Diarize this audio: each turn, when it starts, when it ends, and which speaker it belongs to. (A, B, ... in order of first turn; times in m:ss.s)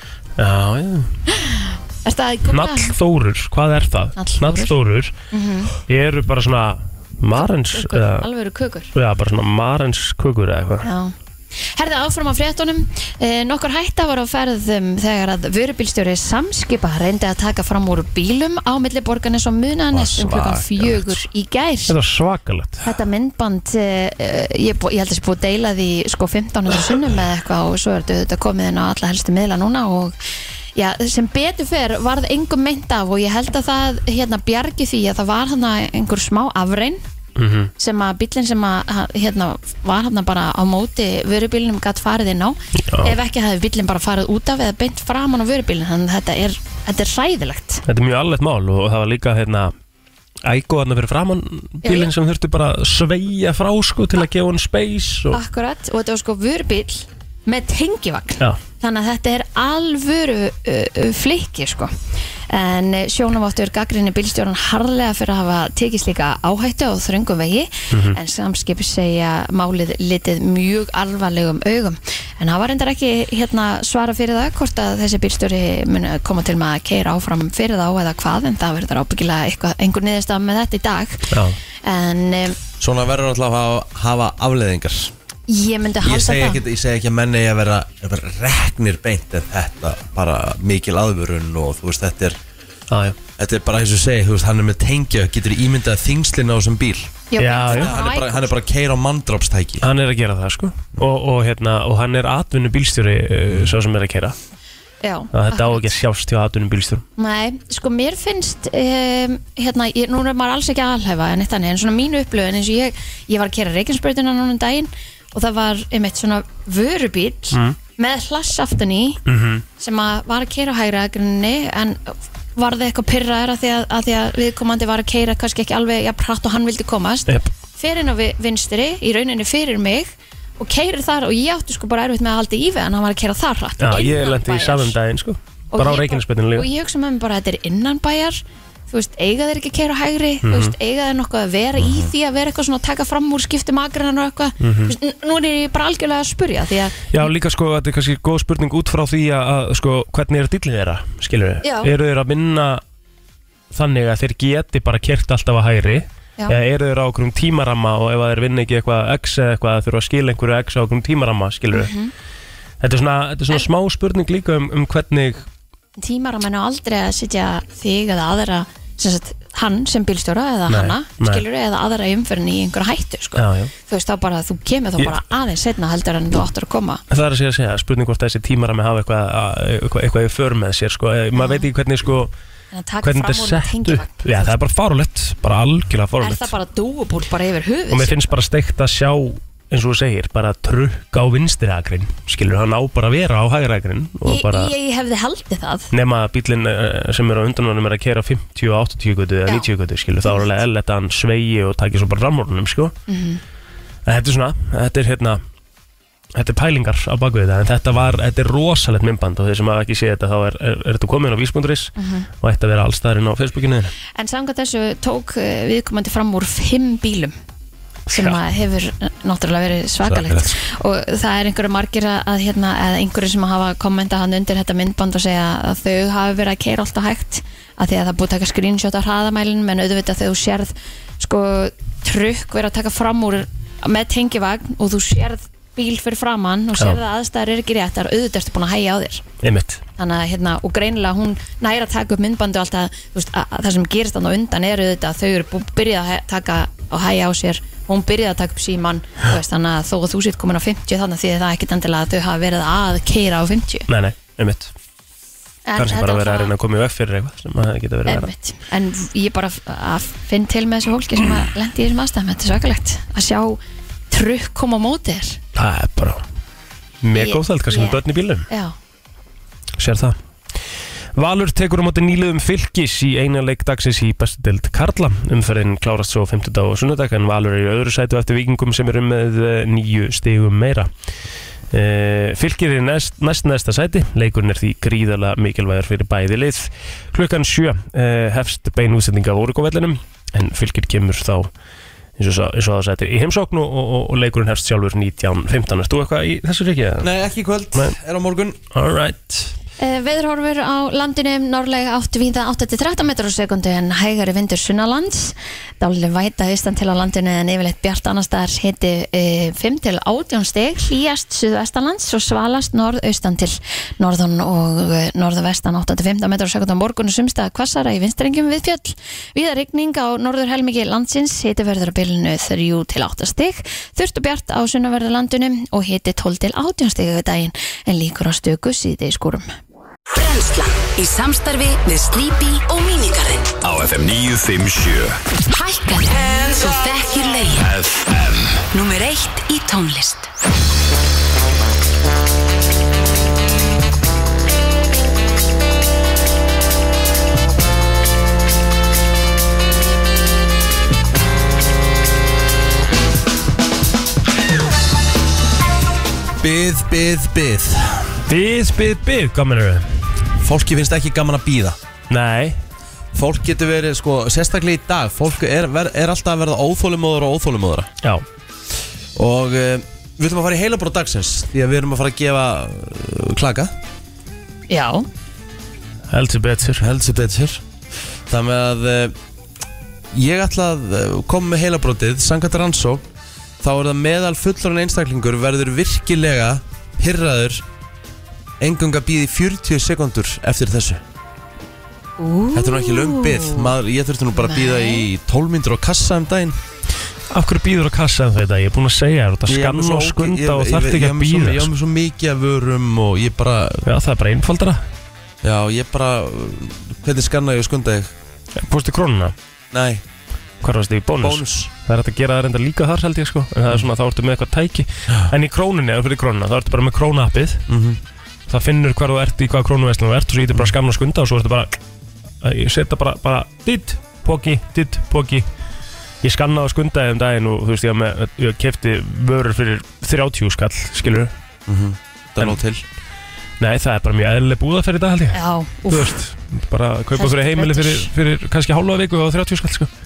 0:00.4-0:01.2 A
0:01.3-0:03.0 B
0:02.5-0:05.1 A
0:04.2-0:04.8 B
0:05.3-0:05.8 B
0:05.9-0:08.3 A
0:07.4-0:08.9 B
0:08.9-0:10.9 A
0:10.8-0:22.0 B
0:19.9-0:21.2 A
0:21.9-0:22.8 A
0:22.8-0:30.2 B
0:30.8-0:37.0 B
0:37.4-0:37.7 A
0:37.8-0:47.8 B
0:42.8-0:43.1 A
0:47.9-0:49.7 A
0:50.4-0:55.4 A
0:51.8-0:52.1 B
0:55.3-1:01.9 B
1:02.5-1:22.6 B
1:07.9-1:08.2 A
1:21.3-1:21.6 A
1:22.8-1:25.1 C
1:25.5-1:26.6 B
1:26.0-1:32.4 C
1:32.9-1:33.2 A
1:33.4-1:39.9 C
1:37.3-1:38.5 B
1:37.4-1:37.9 A
1:39.8-1:44.4 A
1:45.0-1:45.9 B
1:45.3-1:47.0 A
1:47.2-1:59.2 B
1:59.3-1:59.6 A
1:59.8-2:15.0 B
2:13.8-2:16.7 A
2:15.7-2:27.2 B
2:20.4-2:20.8 A
2:21.8-2:22.1 C
2:24.6-2:25.0 A
2:27.1-2:32.8 A
2:31.6-2:31.9 B
2:33.7-2:41.9 A
2:41.7-2:42.1 B
2:42.8-2:45.5 A
2:46.0-2:57.0 B
2:50.7-2:51.4 A
2:53.4-2:53.7 A
2:57.1-3:02.3 A
3:01.4-3:01.7 B
3:02.7-3:04.5 B
3:03.0-3:06.5 A
3:06.2-3:08.2 B
3:07.9-3:14.7 A
3:14.2-3:15.9 B
3:15.9-3:23.0 A
3:23.1-3:23.4 B
3:24.1-3:25.4 A
3:26.4-3:34.0 A
3:32.0-3:32.3 B
3:34.2-3:37.4 B
3:38.1-3:38.4 A
3:38.1-3:59.2 B
3:40.0-3:40.5 C
3:59.4-3:59.8 A
4:00.0-4:13.9 B
4:13.9-4:14.7 A
4:15.7-4:16.5 B
4:15.8-4:18.3 A
4:18.1-4:23.6 B
4:24.1-4:25.4 B
4:25.6-4:26.2 A
4:27.0-4:28.5 A
4:27.2-4:28.8 B
4:29.8-4:30.2 A
4:31.2-4:40.9 A
4:41.7-4:51.5 A
4:52.2-4:57.1 A
4:57.0-4:58.6 C
4:58.7-4:59.5 A
4:59.8-5:29.5 B
5:30.1-5:33.5 D
5:33.6-5:35.2 E
5:35.5-5:37.7 D
5:37.6-5:38.6 E
5:38.7-5:40.3 D
5:56.4-5:58.2 C
5:58.3-6:00.0 A
6:00.4-6:01.8 C
6:02.1-6:02.6 A
6:03.1-6:07.9 C
6:09.2-6:13.7 C
6:14.7-6:15.1 B
6:16.1-6:16.9 A
6:16.8-6:17.6 C
6:18.3-6:19.2 C
6:20.1-6:23.0 C
6:23.6-6:27.6 C
6:28.6-6:31.0 C
6:32.2-6:33.7 B
6:32.5-6:36.6 C
6:34.3-6:35.1 B
6:37.3-6:41.7 A
6:39.5-6:43.8 C
6:43.8-6:44.8 A
6:45.4-6:48.1 C
6:48.6-6:49.3 A
6:49.7-6:50.0 C
6:50.6-6:57.6 A
6:51.2-6:51.7 C
6:57.7-6:58.0 C
6:58.5-7:01.8 A
7:02.4-7:05.5 A
7:06.2-7:11.3 A
7:11.7-7:12.8 C
7:13.6-7:19.9 A
7:15.3-7:16.2 B
7:17.2-7:18.1 B